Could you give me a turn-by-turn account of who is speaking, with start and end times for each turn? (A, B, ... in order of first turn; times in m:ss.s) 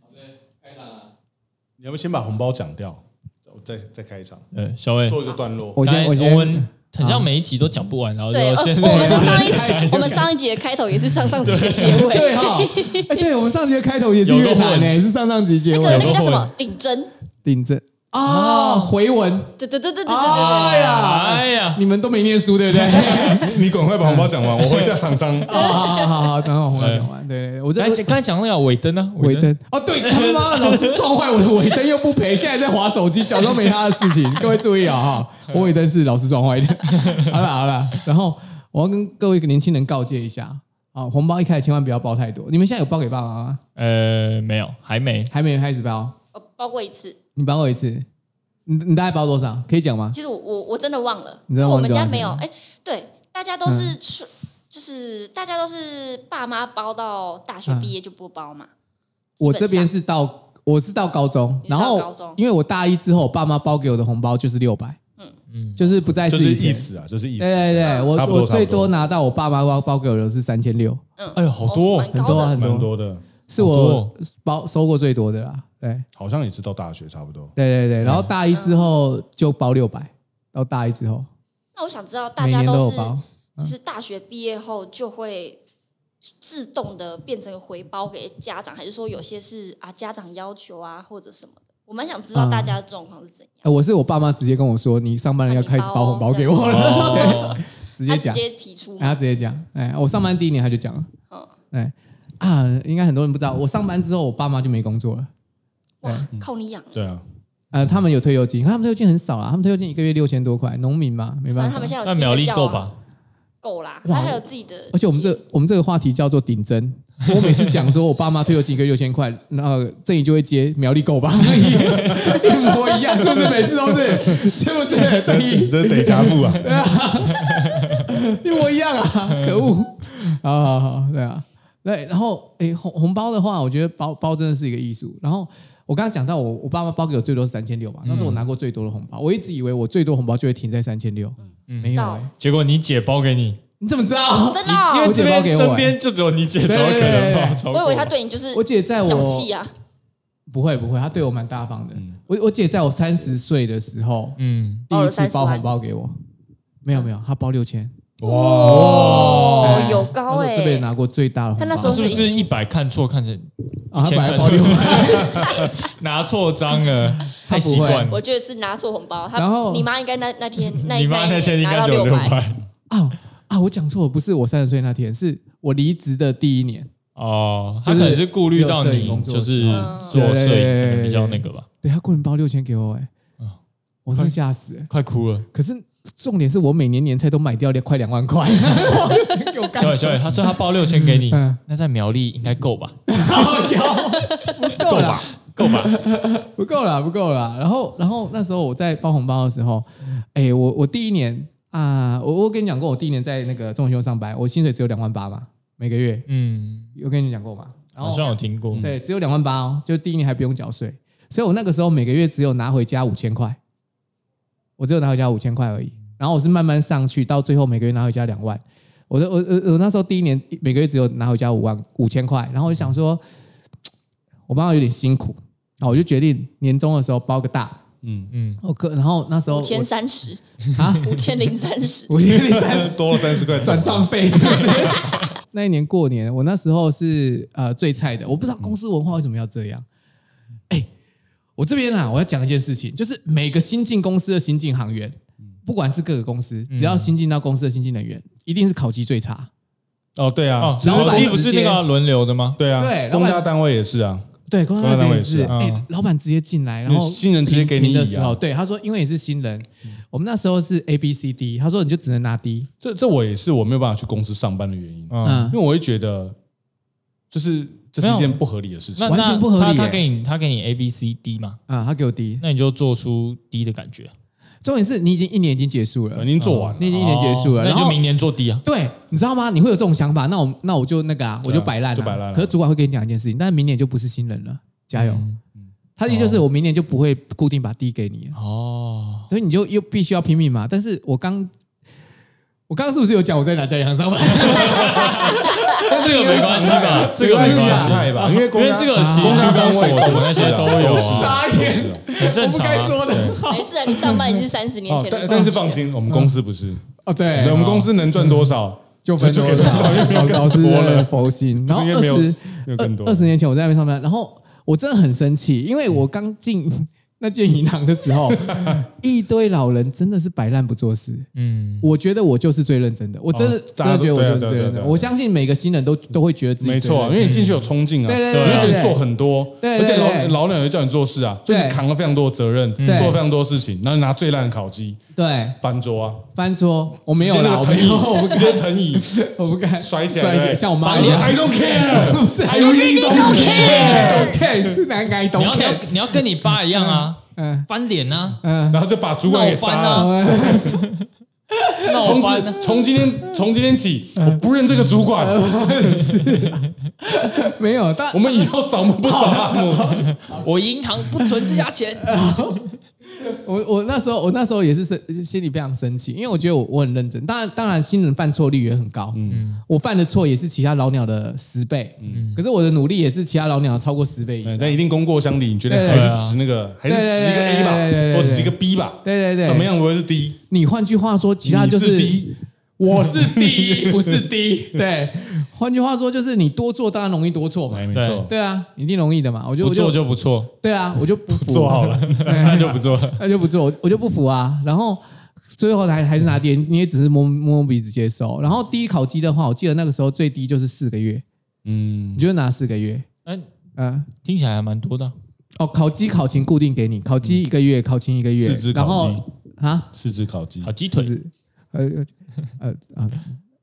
0:01.8-0:04.5 A
0:04.5-0:10.3 B
0:05.1-0:05.8 A
0:05.8-0:07.3 C
0:08.3-0:13.3 D
0:08.8-0:10.3 C
0:11.2-0:12.2 B
0:11.8-0:16.3 C
0:14.2-0:15.0 B
0:15.7-0:17.1 D
0:15.8-0:16.5 A
0:17.5-0:23.5 C
0:18.2-0:19.0 B
0:19.6-0:20.9 D
0:20.3-0:21.8 B
0:22.9-0:25.8 A
0:22.9-0:23.2 B
0:24.0-0:24.3 C
0:25.5-0:28.1 C
0:25.6-0:26.1 D
0:26.8-0:27.1 B
0:27.8-0:31.0 B
0:29.2-0:43.6 C
0:43.8-0:45.3 B
0:45.3-0:46.2 C
0:46.3-0:47.2 D
0:47.4-0:48.1 C
0:48.7-0:50.2 C
0:50.1-0:58.7 D
0:51.5-0:52.4 C
0:53.6-0:54.0 C
0:57.7-0:57.9 C
0:59.4-0:59.9 D
0:59.4-1:05.0 C
1:01.6-1:02.4 D
1:05.5-1:05.8 B
1:05.8-1:11.0 C
1:06.3-1:08.9 A
1:07.8-1:08.1 D
1:11.2-1:12.6 D
1:11.4-1:12.4 B
1:12.1-1:12.9 C
1:12.6-1:13.2 A
1:13.5-1:16.1 C
1:13.6-1:14.1 B
1:16.2-1:17.6 A
1:17.6-1:21.3 C
1:18.5-1:18.9 D
1:21.8-1:25.6 D
1:22.4-1:23.8 C
1:26.4-1:33.7 D
1:32.3-1:32.8 C
1:33.6-1:38.4 C
1:35.5-1:39.2 D
1:36.6-1:37.6 B
1:39.0-1:41.1 C
1:41.7-1:45.3 C
1:46.0-1:47.0 D
1:46.3-1:47.2 A
1:47.7-1:52.0 C
1:51.5-1:52.9 D
1:52.0-1:53.0 B
1:53.6-1:55.4 D
1:54.0-2:22.3 C
2:01.5-2:02.3 B
2:02.0-2:02.4 A
2:03.2-2:04.5 A
2:05.1-2:06.7 A
2:18.0-2:18.4 B
2:21.7-2:23.6 B
2:21.9-2:22.3 D
2:23.8-2:26.0 C
2:24.4-2:25.2 D
2:24.7-2:28.2 B
2:26.6-2:27.6 C
2:27.7-2:29.7 D
2:28.5-2:29.5 C
2:30.5-2:34.4 C
2:34.4-2:34.9 B
2:34.9-2:36.2 C
2:34.9-2:35.7 D
2:36.8-2:38.0 C
2:38.2-2:39.8 A
2:38.2-2:40.9 D
2:38.6-2:39.9 B
2:39.0-2:42.2 C
2:41.6-2:42.5 D
2:41.8-2:48.2 B
2:43.9-2:45.6 C
2:45.2-2:45.6 A
2:47.4-2:48.1 C
2:47.8-2:52.4 D
2:49.4-2:49.9 C
2:50.8-2:52.6 B
2:52.9-2:56.9 C
2:57.2-3:01.7 B
2:57.8-3:03.1 C
2:59.7-3:00.2 D
3:04.1-3:04.9 C
3:04.9-3:05.5 B
3:05.5-3:11.6 C
3:08.8-3:13.4 B
3:13.1-3:26.3 C
3:14.8-3:15.3 A
3:14.9-3:16.0 B
3:26.3-3:26.9 B
3:27.0-3:33.6 C
3:28.0-3:28.9 B
3:34.8-3:43.2 C
3:44.5-3:47.8 C
3:48.0-3:48.3 A
3:48.3-3:48.6 B
3:48.6-3:49.9 C
3:49.5-3:52.1 D
3:50.8-3:51.1 C
3:52.1-3:59.8 C
3:52.3-3:55.0 A
4:01.6-4:09.5 C
4:06.7-4:07.1 B
4:10.2-4:11.4 A
4:10.6-4:12.6 B
4:10.8-4:11.8 C
4:12.6-4:15.5 A
4:12.7-4:13.5 C
4:14.5-4:22.7 C
4:15.5-4:15.8 B
4:16.9-4:18.4 A
4:22.8-4:26.4 A
4:25.1-4:25.5 B
4:25.2-4:25.6 C
4:27.3-4:29.2 A
4:28.0-4:28.4 B
4:29.0-4:31.6 B
4:29.0-4:30.0 C
4:31.7-4:32.4 C
4:32.4-4:34.1 B
4:34.6-4:38.0 C
4:36.1-4:37.1 A
4:36.4-4:38.6 B
4:38.6-4:45.2 C
4:41.4-4:42.6 A
4:45.0-4:45.4 B
4:46.0-4:48.4 C
4:46.1-4:46.4 B
4:48.3-4:49.3 B
4:49.3-4:51.5 C
4:52.7-4:58.1 C
4:54.4-5:01.5 B
4:55.8-5:02.1 A
4:58.9-5:04.4 C
5:02.2-5:03.1 B
5:03.1-5:03.4 A
5:03.5-5:05.8 D
5:04.9-5:13.3 A
5:06.1-5:06.3 C
5:07.0-5:08.5 C
5:09.0-5:21.3 C
5:18.3-5:18.8 A
5:21.4-5:21.9 B
5:21.8-5:27.3 C
5:23.3-5:25.1 A
5:26.6-5:35.0 A
5:27.2-5:27.6 B
5:28.1-5:29.0 C
5:28.3-5:28.8 B
5:29.6-5:30.4 C
5:31.5-5:31.8 C
5:32.8-5:33.2 B
5:32.8-5:33.2 C
5:35.2-5:35.6 C
5:35.6-5:36.3 A
5:36.3-5:47.7 C
5:37.1-5:39.2 A
5:39.8-5:44.6 A
5:40.8-5:41.4 B
5:42.4-5:44.4 D
5:42.7-5:44.3 B
5:45.3-5:48.4 B
5:48.4-5:48.8 C
5:48.7-5:50.7 A
5:49.2-5:50.8 B
5:49.9-5:50.8 C
5:51.5-5:53.2 C
5:51.9-5:52.6 B
5:52.0-5:55.4 A
5:55.2-5:58.5 C
5:56.1-5:56.6 B
5:58.1-6:00.1 A
5:59.0-6:00.4 C
6:00.1-6:02.2 B
6:02.0-6:14.8 C
6:09.1-6:09.4 A
6:09.3-6:09.6 B
6:12.1-6:12.4 B
6:14.4-6:20.4 A
6:15.7-6:16.2 C
6:15.9-6:16.4 B
6:16.8-6:19.7 C
6:20.5-6:30.0 C
6:21.4-6:22.4 A
6:23.1-6:24.2 A
6:27.7-6:28.3 A
6:27.9-6:28.3 B
6:29.6-6:30.5 B
6:30.6-6:35.0 C
6:31.3-6:32.8 A
6:31.9-6:33.2 B
6:35.5-6:41.2 C
6:41.6-6:42.2 A
6:42.2-6:43.1 C
6:43.8-6:44.1 C
6:44.2-6:45.2 B
6:45.6-6:49.9 C
6:48.4-6:49.2 A
6:49.9-6:50.7 A
6:50.6-6:51.1 B
6:50.9-6:53.4 C